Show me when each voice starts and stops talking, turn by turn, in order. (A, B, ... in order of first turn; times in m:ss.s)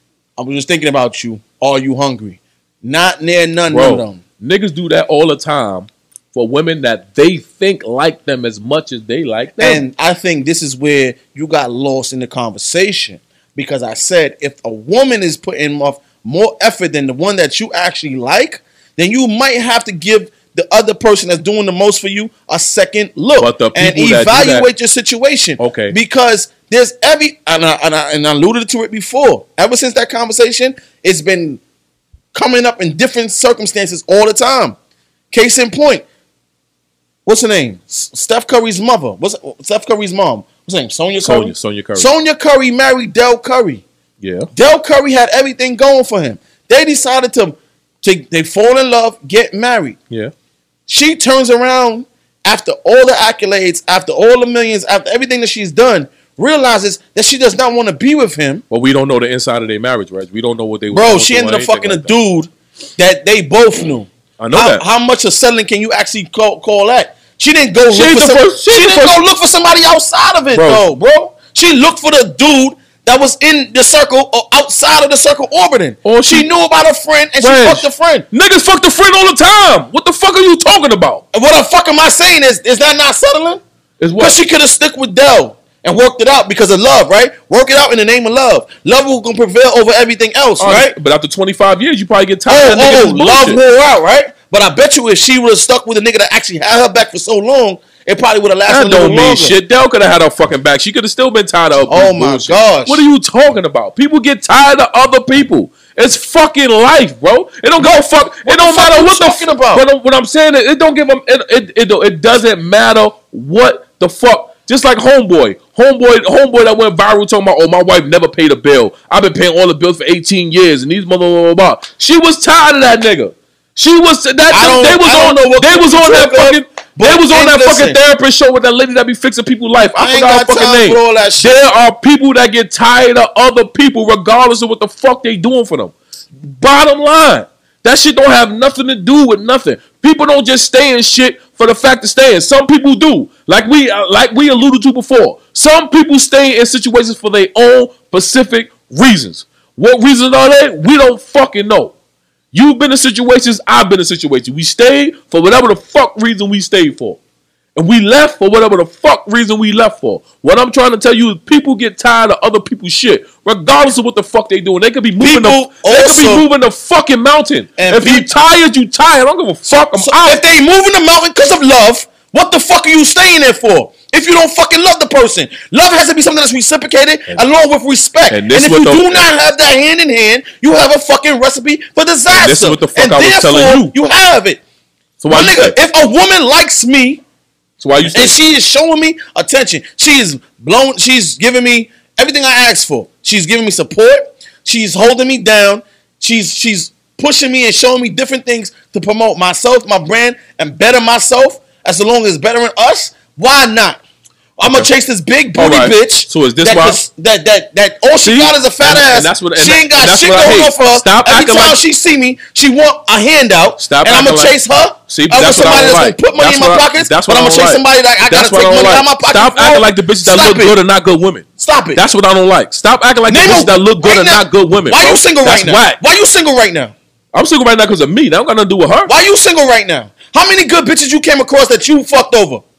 0:00.4-0:04.2 A
0:03.7-0:09.8 B
0:09.6-0:31.6 A
0:23.4-0:24.7 B
0:25.6-0:26.0 B
0:32.3-0:34.8 A
0:35.3-0:36.0 A
0:37.3-0:43.8 A
0:41.2-0:42.1 B
0:44.2-0:44.5 B
0:44.5-0:50.0 A
0:50.9-0:58.6 A
0:58.7-1:02.1 B
1:00.9-1:18.3 A
1:04.4-1:04.8 B
1:07.9-1:09.2 B
1:10.5-1:10.8 B
1:16.0-1:16.5 B
1:17.4-1:21.2 B
1:21.3-1:23.6 A
1:24.0-1:24.4 B
1:24.2-1:30.9 A
1:30.6-1:33.6 B
1:32.5-1:39.5 A
1:38.7-2:31.9 B
1:41.9-1:43.0 A
1:47.8-1:49.8 A
2:04.5-2:08.0 A
2:10.0-2:11.5 A
2:32.5-2:37.2 B
2:37.8-2:50.4 B
2:45.2-2:46.4 A
2:47.8-2:48.3 A
2:49.7-3:04.6 A
2:58.3-2:59.3 B
3:02.3-3:03.9 B
3:05.2-3:05.8 B
3:05.3-3:07.2 A
3:07.8-3:08.4 B
3:08.1-3:24.0 A
3:24.6-3:40.8 A
3:24.6-3:24.9 B
3:25.6-3:27.0 B
3:28.2-3:31.8 B
3:33.8-3:34.6 B
3:35.1-3:46.0 B
3:41.6-3:42.0 A
3:43.3-3:46.9 A
3:47.3-3:49.1 B
3:49.1-3:52.6 A